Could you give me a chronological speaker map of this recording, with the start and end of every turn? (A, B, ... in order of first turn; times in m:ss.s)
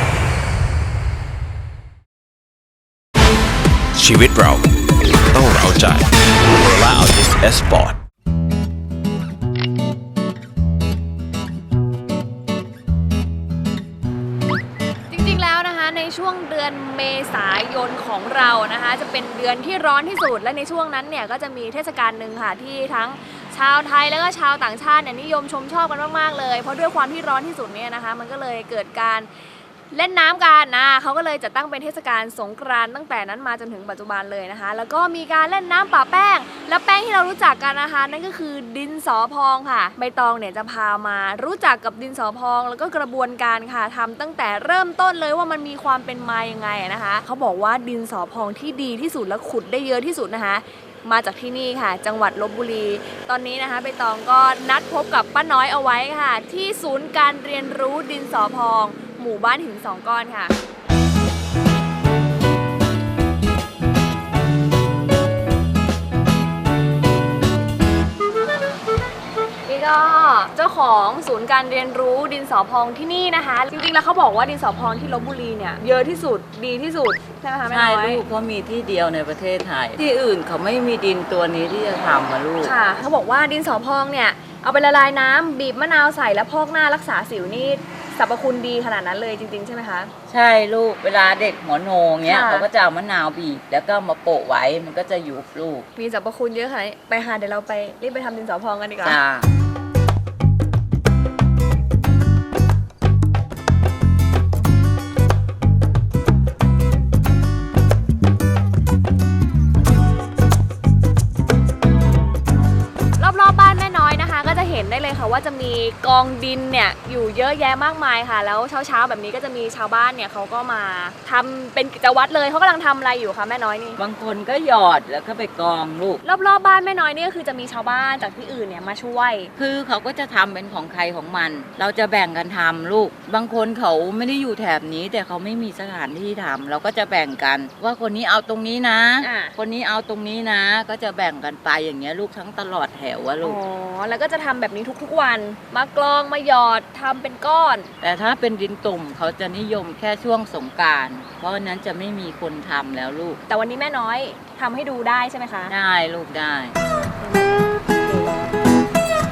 0:04.0-0:08.0 A
0:15.1-0:29.3 B
0:29.9-1:00.6 B
1:09.7-1:18.2 B
1:17.7-1:22.7 C
1:22.6-1:30.1 B
1:30.3-1:35.9 C
1:32.2-1:32.7 B
1:36.0-1:39.2 B
1:39.0-1:39.5 C
1:53.2-2:04.0 B
2:04.0-2:06.2 C
2:06.2-2:09.5 B
2:09.6-2:23.6 C
2:19.2-2:19.5 B
2:23.4-2:27.9 B
2:28.0-2:33.4 C
2:33.5-2:35.8 B
2:35.7-2:36.7 C